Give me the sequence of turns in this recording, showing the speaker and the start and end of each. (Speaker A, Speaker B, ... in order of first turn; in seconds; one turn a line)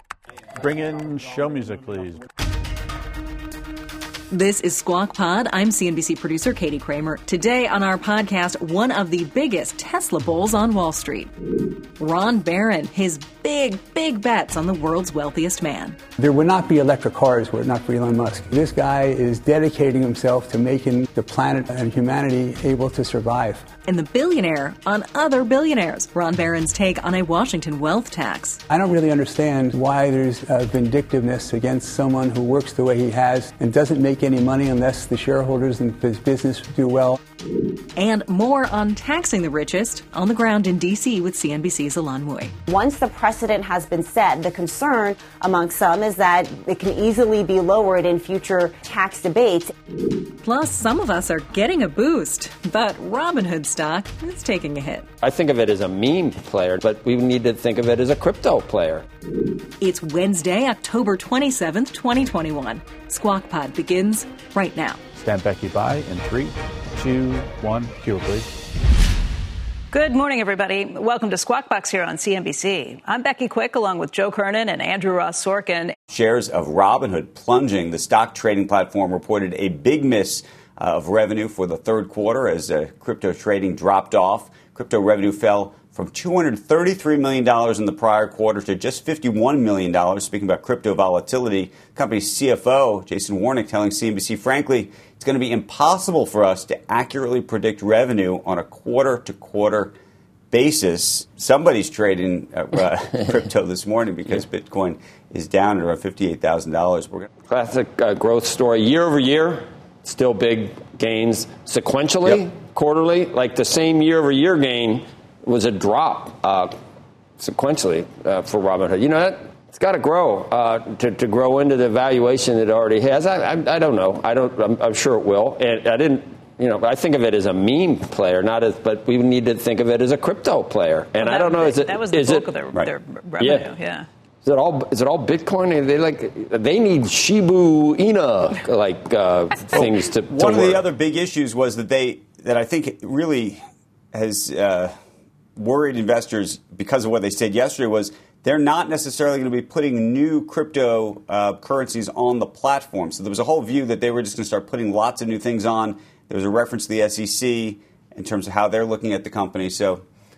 Speaker A: 0.6-2.2
Speaker B: 4.3-11.3
Speaker B: 12.0-16.0
Speaker C: 16.2-23.7
Speaker B: 23.9-28.6
Speaker C: 28.7-37.2
Speaker B: 38.0-42.5
Speaker D: 42.7-49.7
Speaker B: 50.4-55.1
Speaker E: 55.2-59.0
Speaker B: 59.8-65.0
Speaker A: 65.2-68.5
Speaker F: 69.9-75.9
Speaker G: 76.1-99.9
Speaker G: 100.5-107.3
Speaker E: 107.5-116.7
Speaker E: 117.4-132.6
Speaker F: 131.2-134.1
Speaker E: 133.4-133.7
Speaker E: 134.4-140.9
Speaker G: 139.7-144.9
Speaker G: 145.6-160.0